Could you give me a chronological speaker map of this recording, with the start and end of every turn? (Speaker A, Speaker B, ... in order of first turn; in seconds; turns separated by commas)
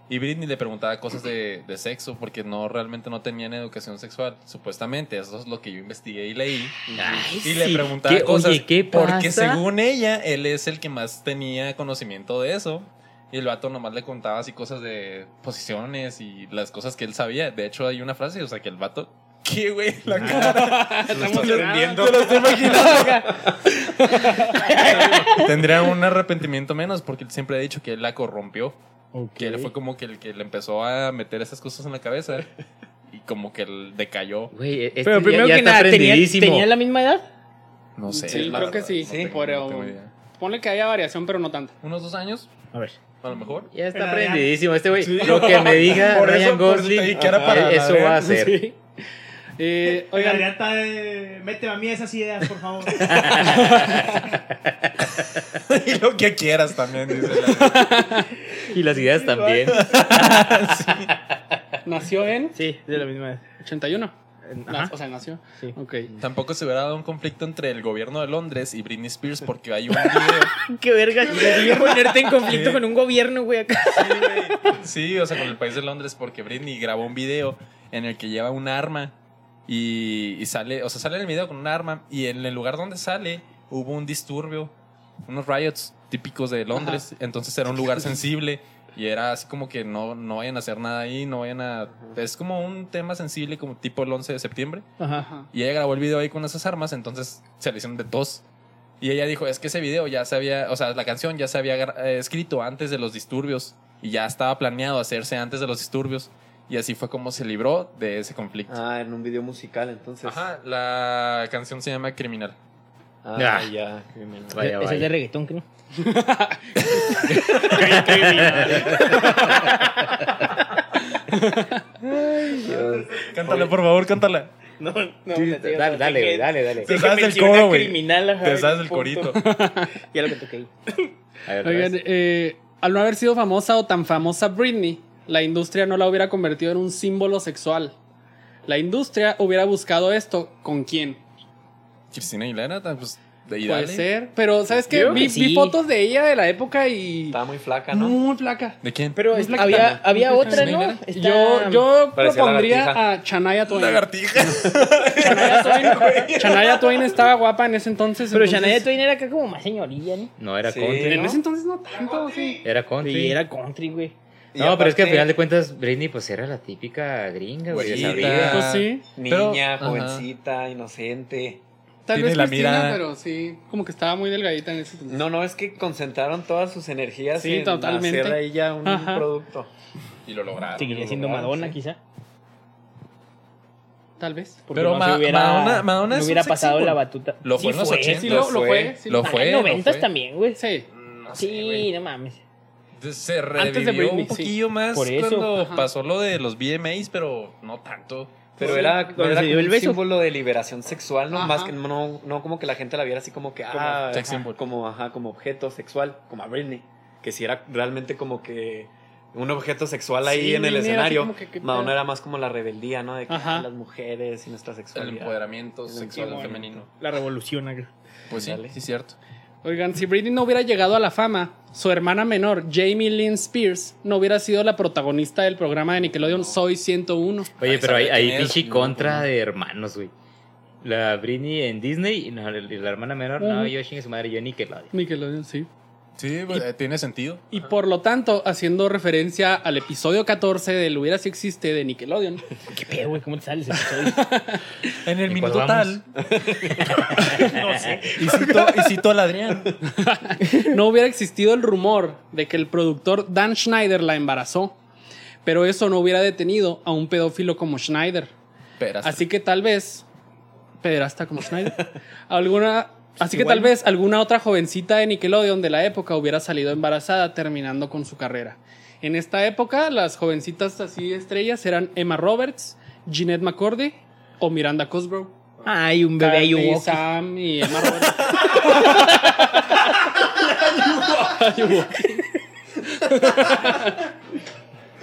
Speaker A: 0.1-6.8, Speaker B: 6.9-7.3, Speaker C: 6.9-9.6, Speaker A: 7.4-23.3, Speaker D: 20.2-25.4, Speaker E: 20.2-20.5, Speaker B: 21.1-21.7, Speaker E: 24.5-25.5, Speaker A: 25.2-28.8, Speaker E: 29.1-29.7, Speaker A: 29.4-32.5, Speaker A: 33.1-34.5, Speaker C: 34.5-36.7, Speaker E: 35.0-37.2, Speaker A: 38.0-40.1, Speaker D: 38.2-41.7, Speaker B: 38.3-39.3, Speaker A: 41.8-42.5, Speaker A: 43.2-43.7, Speaker C: 43.7-48.6, Speaker F: 43.9-44.5, Speaker A: 45.0-48.3, Speaker D: 45.2-45.8, Speaker B: 47.1-47.5, Speaker D: 48.2-48.8, Speaker D: 49.6-50.5, Speaker F: 50.1-53.4, Speaker C: 53.0-55.0, Speaker D: 53.4-54.2, Speaker A: 55.5-58.0, Speaker D: 57.4-58.4, Speaker C: 58.6-61.6, Speaker E: 59.3-59.6, Speaker A: 59.6-61.1, Speaker D: 61.8-62.5, Speaker E: 62.5-63.4, Speaker D: 63.6-64.1, Speaker E: 64.5-64.9, Speaker D: 64.7-66.1, Speaker A: 66.2-70.5, Speaker E: 70.6-74.7, Speaker A: 71.4-71.8, Speaker A: 72.4-72.8, Speaker A: 73.9-79.1, Speaker A: 79.7-84.7, Speaker A: 85.2-94.9, Speaker D: 86.7-87.0, Speaker E: 95.0-95.2, Speaker D: 95.1-95.5, Speaker A: 95.5-98.4, Speaker A: 99.0-108.8, Speaker B: 108.7-110.4, Speaker A: 110.2-112.5, Speaker B: 113.2-114.7, Speaker C: 113.3-113.7, Speaker C: 114.5-115.1, Speaker E: 114.6-115.6, Speaker D: 115.9-120.0, Speaker E: 117.6-120.1, Speaker C: 117.7-119.4, Speaker D: 121.3-121.8, Speaker A: 122.0-124.5, Speaker B: 122.6-123.7, Speaker E: 124.8-129.5, Speaker C: 125.3-126.9, Speaker A: 126.8-129.4, Speaker D: 129.4-129.9, Speaker E: 130.1-130.9, Speaker C: 131.5-131.9, Speaker D: 131.6-137.9, Speaker D: 138.7-141.2, Speaker A: 142.1-144.1, Speaker D: 143.6-147.4, Speaker E: 144.9-145.8, Speaker B: 147.3-148.2, Speaker D: 147.9-148.8, Speaker A: 148.8-149.2, Speaker E: 149.2-151.9, Speaker D: 149.3-158.8, Speaker B: 149.7-150.0, Speaker A: 150.5-151.0, Speaker B: 152.1-153.0, Speaker A: 153.7-157.0, Speaker B: 154.5-154.8, Speaker E: 158.3-160.3, Speaker C: 160.4-161.4, Speaker B: 160.6-161.4, Speaker D: 161.1-162.6, Speaker C: 162.6-163.4, Speaker E: 163.0-164.1, Speaker B: 164.5-165.3, Speaker C: 164.6-168.6, Speaker A: 167.7-170.2, Speaker B: 167.7-171.6, Speaker D: 168.4-169.1, Speaker D: 172.1-175.2, Speaker A: 172.1-173.0, Speaker B: 175.1-179.7, Speaker D: 177.3-179.3, Speaker A: 180.2-180.9, Speaker E: 180.8-182.0, Speaker B: 180.8-181.8, Speaker D: 184.2-184.6, Speaker E: 184.7-188.4, Speaker A: 184.7-190.1, Speaker D: 188.2-189.4, Speaker B: 188.3-189.0, Speaker E: 189.2-190.6, Speaker D: 190.6-190.9, Speaker A: 190.9-191.9, Speaker E: 191.3-192.4, Speaker A: 193.0-198.6, Speaker D: 193.6-194.5, Speaker E: 194.9-195.5, Speaker D: 195.5-195.9, Speaker B: 198.6-216.8, Speaker D: 198.6-199.0, Speaker E: 198.6-200.0, Speaker D: 201.3-201.7, Speaker E: 203.7-204.0, Speaker A: 204.1-204.6, Speaker D: 210.2-211.9, Speaker D: 213.3-213.7, Speaker A: 214.9-216.9, Speaker E: 216.2-217.9, Speaker A: 218.3-219.2, Speaker B: 218.3-218.7, Speaker D: 219.6-227.5, Speaker C: 227.6-230.1, Speaker A: 227.6-229.2, Speaker C: 230.8-234.9, Speaker D: 233.4-233.7, Speaker D: 234.9-235.7, Speaker A: 236.2-237.7, Speaker D: 237.5-242.4, Speaker E: 242.7-244.2, Speaker D: 244.0-244.6, Speaker A: 245.0-246.1, Speaker C: 245.2-246.0, Speaker B: 246.4-246.7, Speaker A: 247.2-247.5, Speaker C: 247.4-247.9, Speaker F: 247.6-248.2, Speaker A: 248.1-249.8, Speaker D: 249.9-254.8, Speaker D: 255.4-258.3, Speaker A: 258.8-259.2, Speaker D: 259.0-260.0, Speaker D: 260.8-275.3, Speaker A: 263.2-263.7, Speaker E: 275.6-277.1, Speaker D: 276.2-282.3, Speaker D: 282.9-284.0